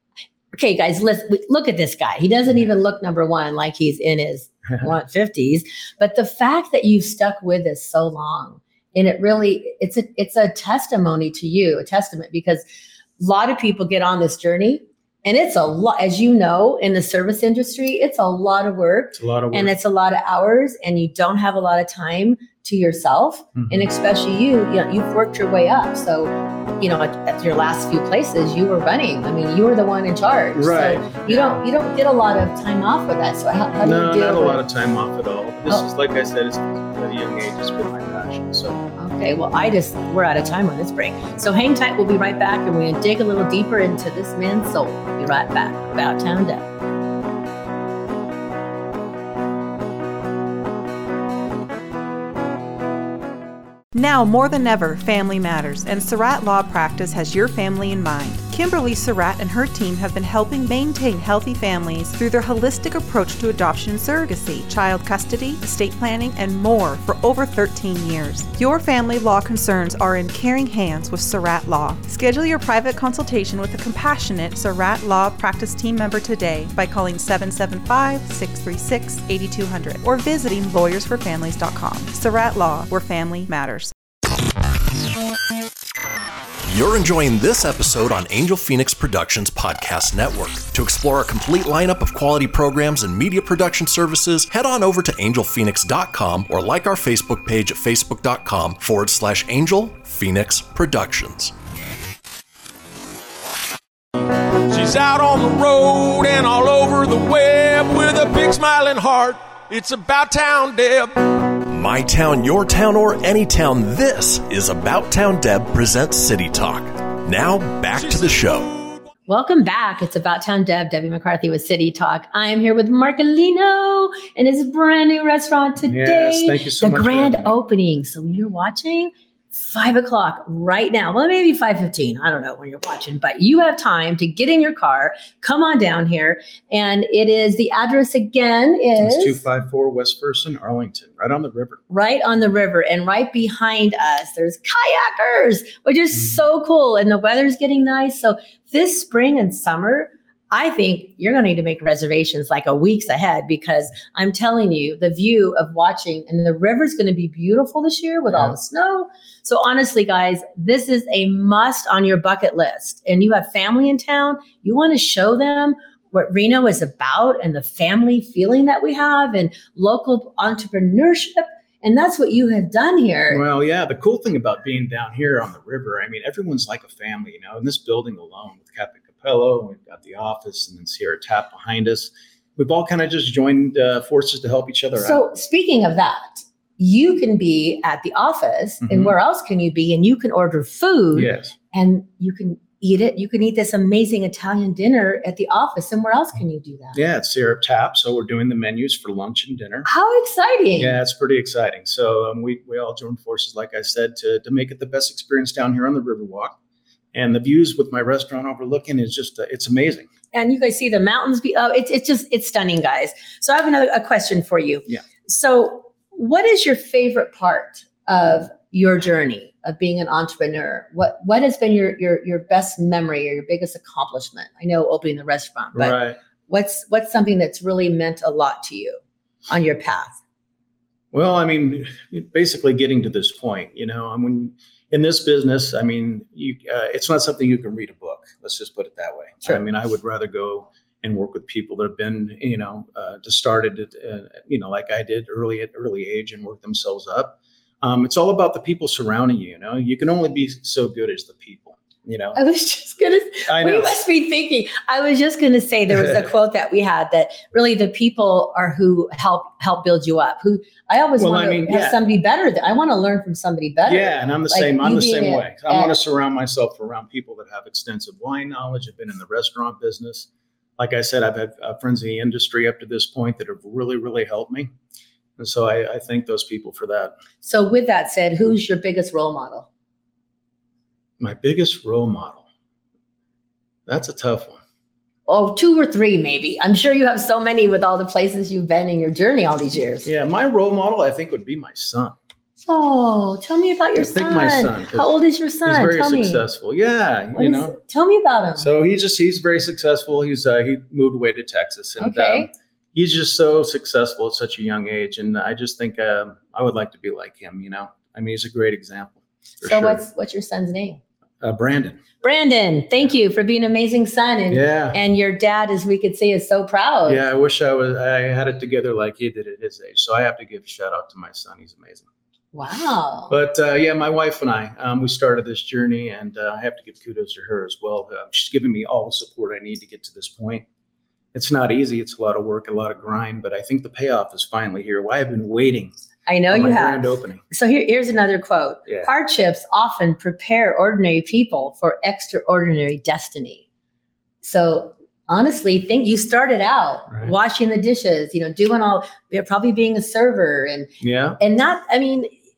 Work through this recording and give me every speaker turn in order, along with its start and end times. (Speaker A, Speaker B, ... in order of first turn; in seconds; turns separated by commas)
Speaker A: 0.5-12.7, Speaker A: 13.2-34.6, Speaker B: 19.1-19.7, Speaker B: 23.6-23.9, Speaker B: 30.6-31.6, Speaker B: 33.8-38.8, Speaker A: 39.0-46.7, Speaker C: 53.9-83.9, Speaker D: 86.7-101.5, Speaker E: 104.7-111.1, Speaker D: 111.7-118.7, Speaker E: 118.0-119.0, Speaker A: 119.3-139.4, Speaker B: 125.8-127.5, Speaker B: 139.0-141.8, Speaker A: 141.9-173.4, Speaker B: 173.3-185.2, Speaker A: 185.0-197.0, Speaker B: 188.8-189.2, Speaker B: 191.1-191.5, Speaker B: 196.9-199.9, Speaker A: 199.8-201.0, Speaker B: 200.8-206.6, Speaker B: 207.1-210.1, Speaker A: 210.3-230.2, Speaker B: 225.7-226.2, Speaker B: 231.1-252.4, Speaker A: 252.3-266.0, Speaker B: 253.5-254.0, Speaker B: 255.9-256.2, Speaker B: 261.2-262.0, Speaker B: 263.9-274.7, Speaker B: 275.4-277.1, Speaker A: 277.4-279.7, Speaker B: 281.2-282.4, Speaker B: 283.9-284.6, Speaker A: 285.3-290.1, Speaker B: 290.0-292.2, Speaker A: 292.6-296.4, Speaker B: 294.0-295.1, Speaker B: 295.7-297.8, Speaker A: 297.4-298.7, Speaker B: 298.6-310.0, Speaker A: 302.0-302.5, Speaker A: 309.6-311.0, Speaker B: 311.4-312.0, Speaker A: 312.2-317.2, Speaker B: 314.5-315.0, Speaker B: 317.1-322.1, Speaker A: 322.5-323.4, Speaker B: 323.3-330.7, Speaker B: 331.3-335.9, Speaker A: 336.3-343.6, Speaker B: 336.5-337.4, Speaker A: 344.4-352.3, Speaker B: 351.0-351.4